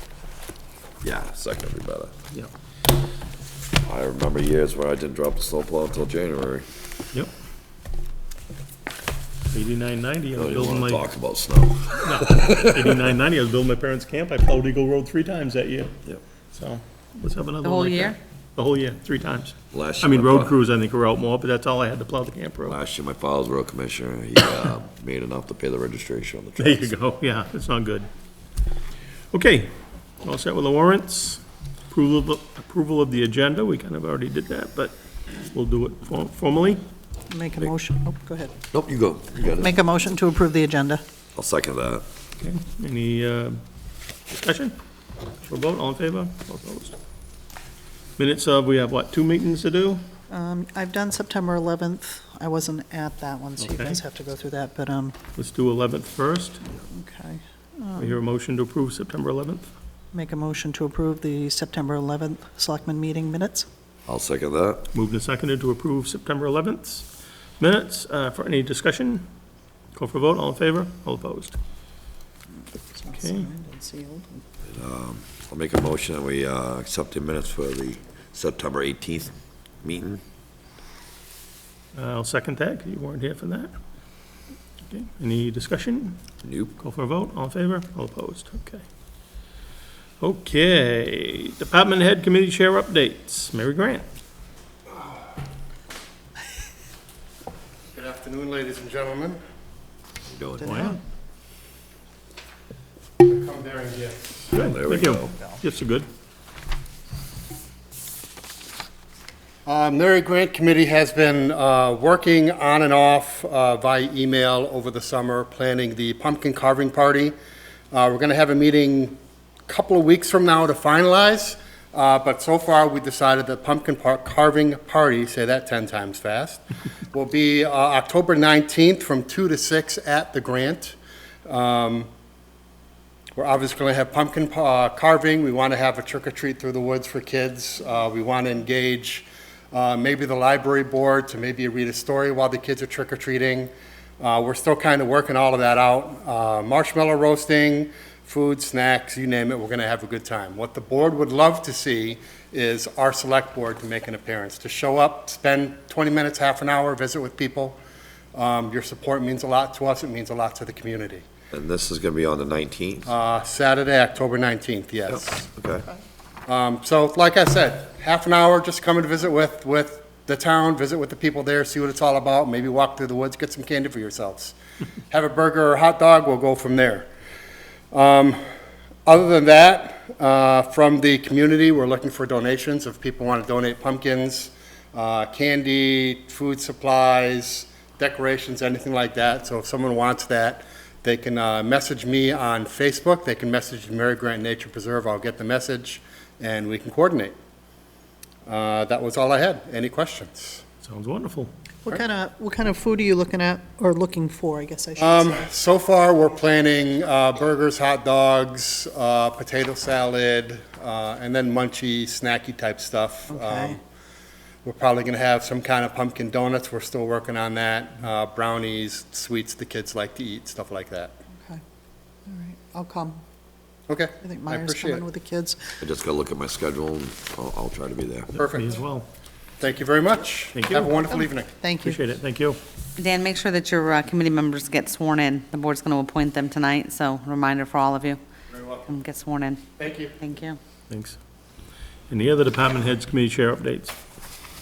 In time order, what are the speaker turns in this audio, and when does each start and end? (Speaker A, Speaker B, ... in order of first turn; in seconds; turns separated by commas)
Speaker A: 1.0-2.1, Speaker A: 3.8-6.7, Speaker B: 9.5-11.1, Speaker A: 10.3-12.8, Speaker B: 12.0-15.9, Speaker B: 16.5-22.7, Speaker C: 17.6-18.2, Speaker A: 19.7-20.6, Speaker A: 22.6-26.9, Speaker B: 26.6-28.1, Speaker B: 29.3-36.8, Speaker D: 37.3-38.5, Speaker A: 38.7-39.7, Speaker D: 39.5-41.0, Speaker A: 41.3-42.0, Speaker B: 42.4-43.6, Speaker B: 44.3-44.8, Speaker B: 45.4-47.0, Speaker B: 48.2-50.0, Speaker D: 50.3-55.2, Speaker B: 53.6-54.0, Speaker B: 55.3-56.6, Speaker D: 56.8-58.2, Speaker B: 58.0-59.7, Speaker D: 60.1-63.7, Speaker A: 64.0-64.9, Speaker B: 64.9-67.0, Speaker B: 67.6-69.3, Speaker B: 70.0-71.5, Speaker D: 72.9-74.4, Speaker B: 73.2-73.5, Speaker A: 74.7-80.2, Speaker B: 81.9-83.7, Speaker B: 84.9-86.2, Speaker A: 86.4-86.7, Speaker B: 86.8-88.8, Speaker B: 90.2-94.1, Speaker E: 97.9-99.4, Speaker A: 100.3-100.8, Speaker D: 100.6-101.0, Speaker B: 100.6-101.0, Speaker E: 103.2-104.5, Speaker B: 104.5-106.1, Speaker A: 104.5-105.3, Speaker E: 109.7-117.3, Speaker E: 117.9-132.1, Speaker E: 133.3-157.8, Speaker E: 158.3-161.2, Speaker A: 161.5-163.1, Speaker E: 163.1-165.4, Speaker A: 165.1-165.9, Speaker E: 166.5-174.5, Speaker E: 175.1-177.1, Speaker E: 177.9-178.4, Speaker E: 179.1-197.3, Speaker E: 198.4-200.6, Speaker B: 200.8-201.5, Speaker D: 201.8-205.5, Speaker E: 205.0-213.8, Speaker D: 213.3-213.8, Speaker E: 214.6-221.2, Speaker D: 222.3-223.2, Speaker E: 223.9-225.0, Speaker D: 224.2-225.8, Speaker A: 225.8-228.3, Speaker E: 228.3-228.8, Speaker B: 228.4-229.1, Speaker E: 229.6-231.5, Speaker B: 230.5-231.0, Speaker D: 231.1-232.0, Speaker B: 231.8-232.6, Speaker C: 233.0-238.2, Speaker E: 238.5-238.8, Speaker C: 238.8-239.7, Speaker E: 239.8-240.1, Speaker C: 240.2-240.6, Speaker B: 240.9-241.2, Speaker B: 242.1-243.9